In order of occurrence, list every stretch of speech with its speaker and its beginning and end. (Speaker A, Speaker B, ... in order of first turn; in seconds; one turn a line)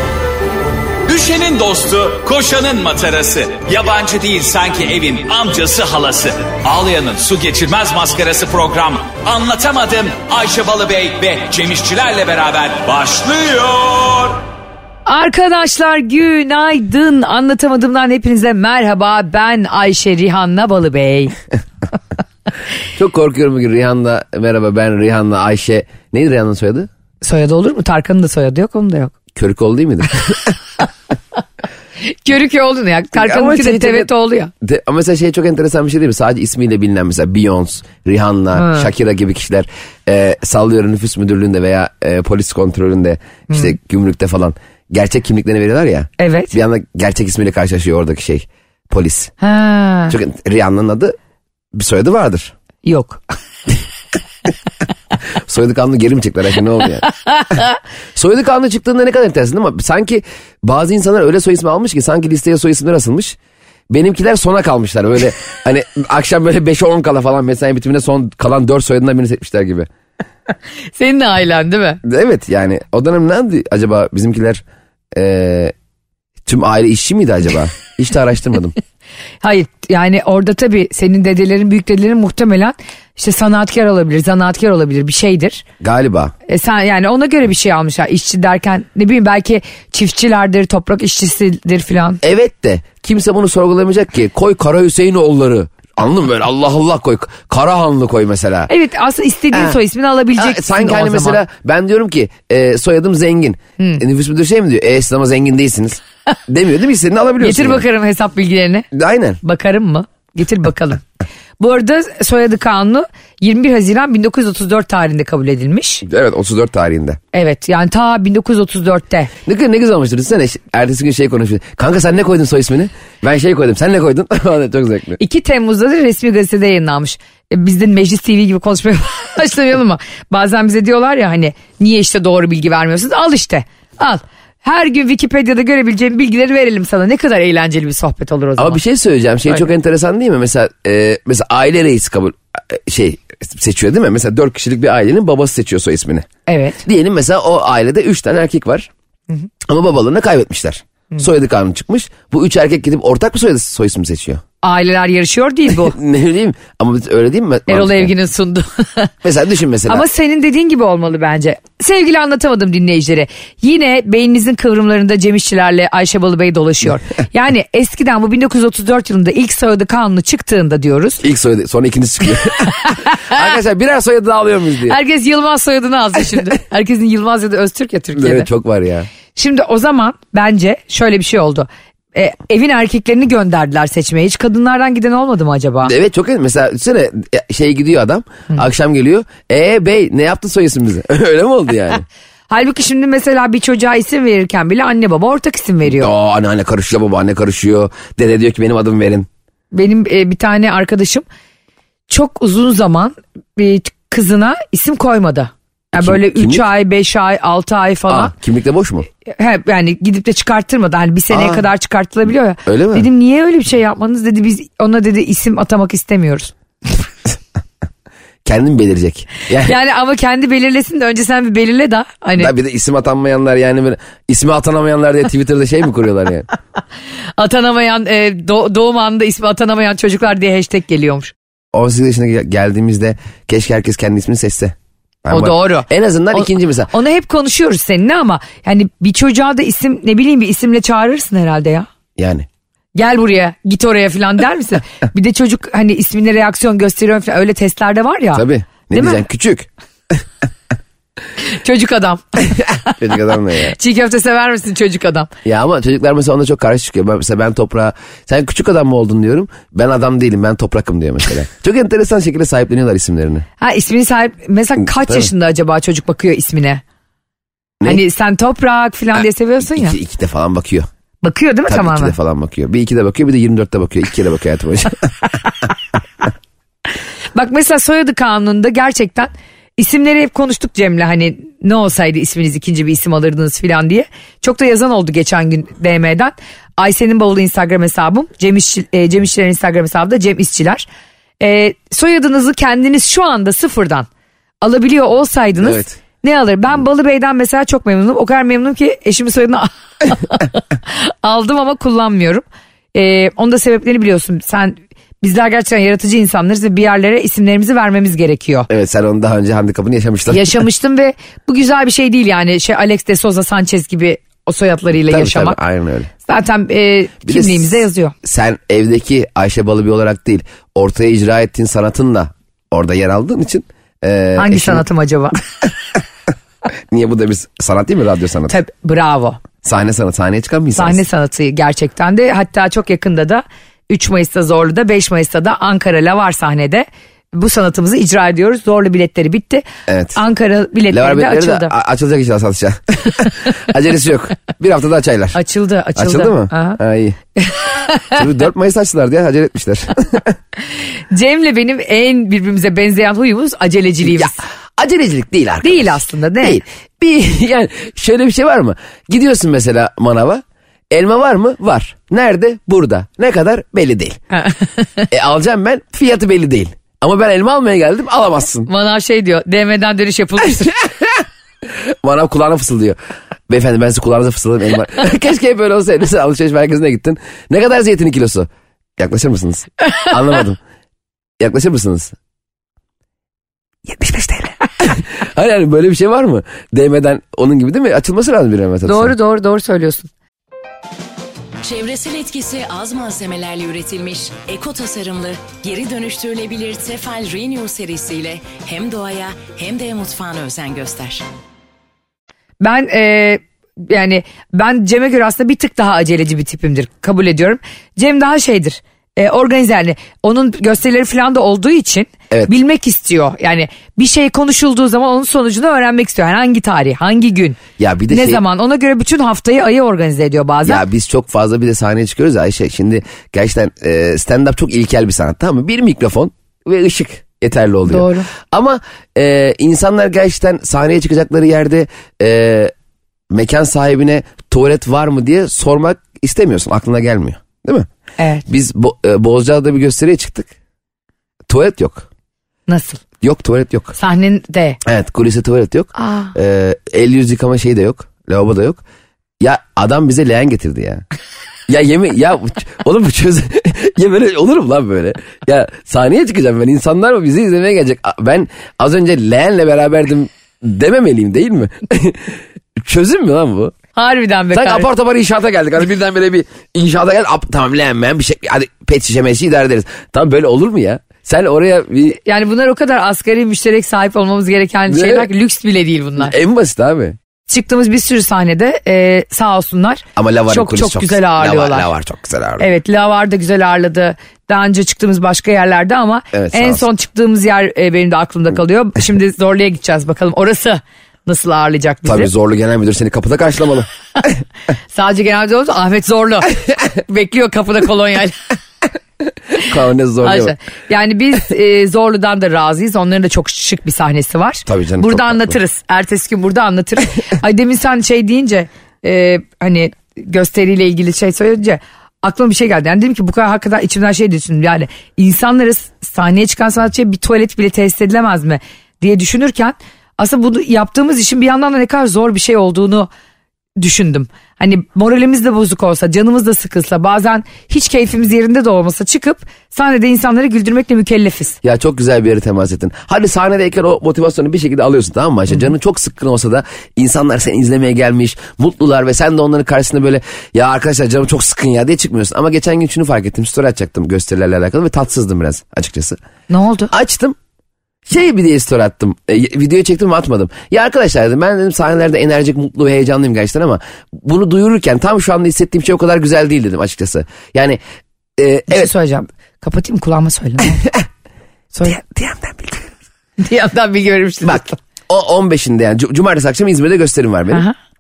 Speaker A: 1.1-14.4
Speaker B: 15.1-21.4
Speaker C: 23.0-26.9
Speaker B: 27.2-29.1
Speaker C: 29.4-30.5
Speaker B: 32.0-34.5
Speaker C: 33.1-34.1
Speaker C: 34.6-49.3
Speaker B: 38.5-38.9
Speaker B: 46.2-46.5
Speaker B: 49.4-50.2
Speaker C: 50.1-51.1
Speaker C: 51.7-52.5
Speaker B: 52.8-53.2
Speaker C: 55.5-57.0
Speaker B: 57.1-57.8
Speaker C: 58.2-63.4
Speaker C: 63.9-69.9
Speaker B: 71.0-72.0
Speaker C: 72.0-74.6
Speaker C: 75.2-75.7
Speaker C: 76.5-78.8
Speaker B: 79.4-85.7
Speaker C: 85.8-86.3
Speaker B: 86.5-92.2
Speaker C: 92.2-98.7
Speaker B: 98.7-101.4
Speaker C: 100.4-107.8
Speaker B: 107.4-108.9
Speaker C: 108.9-109.4
Speaker B: 109.4-111.0
Speaker B: 111.6-116.0
Speaker C: 116.0-117.2
Speaker B: 117.3-119.3
Speaker C: 119.5-125.2
Speaker B: 125.2-138.8
Speaker C: 138.6-146.3
Speaker B: 146.5-146.8
Speaker C: 146.8-148.9
Speaker C: 149.7-154.4
Speaker B: 154.6-156.0
Speaker C: 155.8-158.1
Speaker B: 157.7-159.1
Speaker C: 159.2-160.1
Speaker B: 159.9-171.2
Speaker C: 171.2-175.0
Speaker B: 172.7-173.5
Speaker B: 174.9-178.5
Speaker C: 178.2-179.1
Speaker B: 179.3-185.9
Speaker C: 185.8-192.1
Speaker B: 192.5-196.1
Speaker C: 195.9-199.3
Speaker B: 199.7-201.2
Speaker B: 202.1-208.3
Speaker C: 206.0-206.7
Speaker C: 208.1-209.1
Speaker B: 209.3-216.5
Speaker C: 211.3-211.6
Speaker C: 212.7-213.1
Speaker C: 218.4-219.8
Speaker B: 219.6-222.5
Speaker C: 222.4-226.5
Speaker B: 227.4-231.3
Speaker C: 231.7-236.9
Speaker B: 235.3-241.9
Speaker C: 242.2-242.5
Speaker B: 243.0-249.2
Speaker C: 248.3-249.7
Speaker B: 251.4-253.0
Speaker C: 252.6-253.8
Speaker B: 253.6-255.3
Speaker C: 255.4-263.4
Speaker B: 263.6-266.8
Speaker B: 267.8-270.0
Speaker C: 269.7-270.9
Speaker B: 271.2-272.1
Speaker C: 271.7-275.1
Speaker B: 277.3-290.9
Speaker B: 291.4-294.1
Speaker B: 294.6-308.7
Speaker C: 295.6-296.0
Speaker C: 308.7-310.6
Speaker B: 310.3-315.6
Speaker C: 315.1-316.1
Speaker B: 316.2-318.1
Speaker C: 317.2-317.7
Speaker C: 318.2-324.9
Speaker B: 324.4-325.4
Speaker C: 326.9-328.6
Speaker B: 328.5-329.4
Speaker C: 329.6-331.0
Speaker B: 330.8-341.7
Speaker C: 339.9-340.2
Speaker C: 340.9-345.4
Speaker B: 345.3-346.8
Speaker C: 346.0-347.2
Speaker B: 347.4-348.2
Speaker C: 348.1-350.3
Speaker B: 351.1-354.4
Speaker C: 354.0-364.2
Speaker B: 355.6-356.6
Speaker B: 364.4-365.1
Speaker C: 365.1-368.7
Speaker B: 368.7-370.8
Speaker C: 370.8-373.0
Speaker C: 373.5-380.6
Speaker C: 381.4-382.1
Speaker C: 383.9-389.1
Speaker B: 388.9-390.1
Speaker D: 391.6-401.2
Speaker B: 402.6-417.6
Speaker C: 417.8-418.4
Speaker B: 418.1-420.8
Speaker C: 420.7-432.7
Speaker B: 427.9-428.3
Speaker C: 433.3-437.9
Speaker B: 438.2-438.4
Speaker C: 438.5-440.5
Speaker C: 441.5-442.1
Speaker B: 442.7-443.0
Speaker C: 443.2-443.9
Speaker B: 444.0-444.8
Speaker C: 444.8-448.8
Speaker B: 446.0-446.3
Speaker C: 449.4-451.0
Speaker C: 451.7-463.8
Speaker B: 463.9-464.9
Speaker C: 464.5-472.2
Speaker B: 472.2-476.3
Speaker C: 474.9-475.3
Speaker C: 476.2-477.2
Speaker B: 477.5-481.9
Speaker C: 480.2-482.7
Speaker B: 482.6-492.3
Speaker C: 486.3-486.9
Speaker C: 492.1-494.3
Speaker B: 494.9-498.4
Speaker C: 499.6-500.6
Speaker B: 500.2-523.1
Speaker C: 504.7-505.6
Speaker B: 523.8-531.6
Speaker C: 531.6-546.2
Speaker B: 546.5-546.9
Speaker C: 546.9-547.4
Speaker C: 548.1-557.8
Speaker C: 558.4-558.9
Speaker B: 558.7-560.8
Speaker C: 561.8-563.0
Speaker B: 563.4-564.8
Speaker C: 564.5-567.6